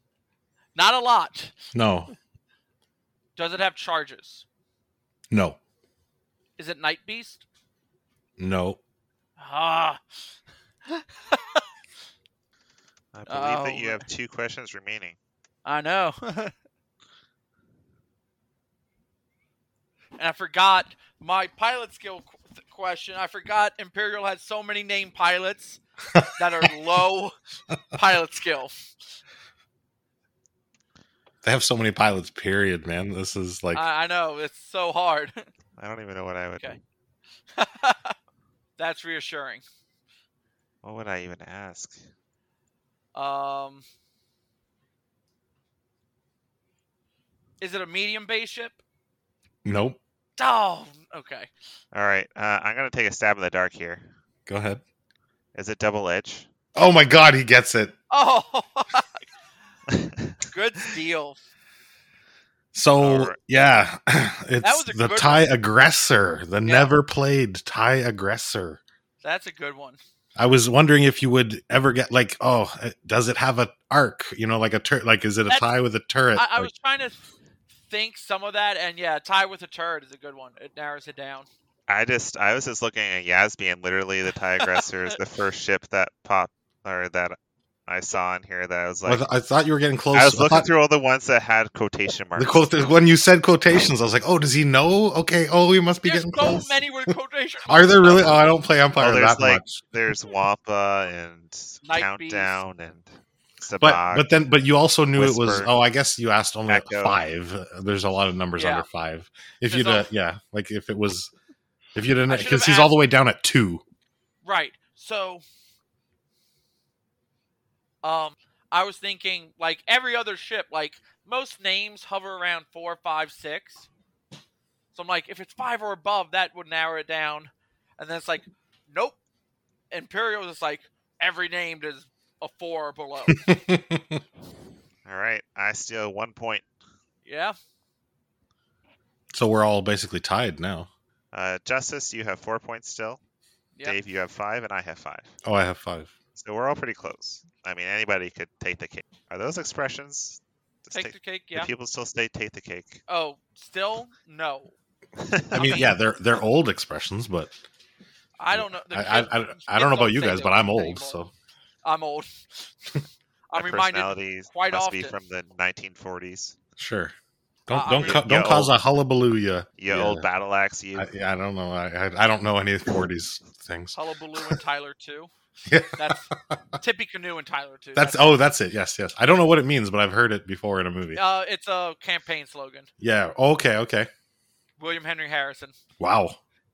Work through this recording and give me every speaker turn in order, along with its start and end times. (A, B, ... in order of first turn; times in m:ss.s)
0:00.7-0:01.5 A
0:01.7-0:02.1 B
0:03.4-0:04.4 A
0:05.3-0:05.6 B
0:06.6-0:07.4 A
0:08.4-0:08.8 B
0:09.4-0:10.0 A
0:10.9-0:11.6 A
0:13.1-0:15.2 C
0:13.3-0:14.0 A
0:15.6-0:16.5 A
0:20.2-0:25.8 A
0:26.1-0:26.7 B
0:26.4-0:27.3 A
0:27.9-0:28.7 A
0:31.4-0:33.8 B
0:33.7-0:35.5 A
0:35.8-0:36.7 C
0:37.5-0:38.2 A
0:38.8-0:39.6 A
0:40.8-0:42.0 C
0:43.1-0:43.8 A
0:47.6-0:48.8 A
0:49.6-0:50.0 B
0:50.4-0:51.5 A
0:51.9-0:54.1 C
0:54.5-0:54.8 B
0:55.5-0:56.5 C
0:56.7-0:58.0 B
0:58.1-0:59.2 A
0:59.9-1:00.3 C
1:00.5-1:01.4 A
1:02.7-1:08.8 B
1:03.0-1:03.4 C
1:04.6-1:05.5 A
1:06.6-1:06.9 A
1:09.2-1:10.0 A
1:10.4-1:16.7 B
1:16.3-1:17.3 A
1:17.9-1:21.5 A
1:21.9-1:27.4 C
1:27.9-1:29.2 C
1:29.0-1:30.7 B
1:30.1-1:32.7 C
1:32.4-1:36.8 B
1:36.0-1:38.3 A
1:37.7-1:39.8 B
1:39.0-1:44.2 C
1:41.8-1:42.6 A
1:43.8-1:51.3 B
1:45.2-1:45.7 C
1:46.7-1:47.2 C
1:48.6-1:48.8 A
1:49.7-1:50.1 A
1:51.9-1:53.8 B
1:52.3-1:52.9 A
1:54.4-1:55.4 A
1:58.0-2:03.9 A
2:04.9-2:09.2 A
2:09.9-2:13.4 A
2:13.3-2:14.2 B
2:15.0-2:16.6 C
2:17.2-2:17.6 A
2:19.3-2:20.9 B
2:21.3-2:23.2 C
2:23.8-2:25.3 C
2:25.4-2:26.1 B
2:26.4-2:33.0 C
2:30.9-2:31.7 A
2:33.1-2:34.7 A
2:35.2-2:35.8 C
2:35.5-2:35.9 A
2:35.5-2:37.5 B
2:38.4-2:41.2 A
2:38.5-2:41.3 B
2:41.8-2:42.9 A
2:43.5-2:45.1 A
2:43.5-2:46.6 C
2:46.8-2:47.1 B
2:47.7-2:50.3 B
2:47.7-2:48.2 A
2:47.9-2:48.7 C
2:49.8-2:51.1 C
2:50.9-2:54.6 B
2:53.9-2:55.3 A
2:55.6-2:56.6 B
2:56.0-2:58.3 A
2:58.0-3:01.2 B
3:01.1-3:02.9 A
3:03.0-3:04.1 B
3:04.8-3:05.8 A
3:06.0-3:06.4 B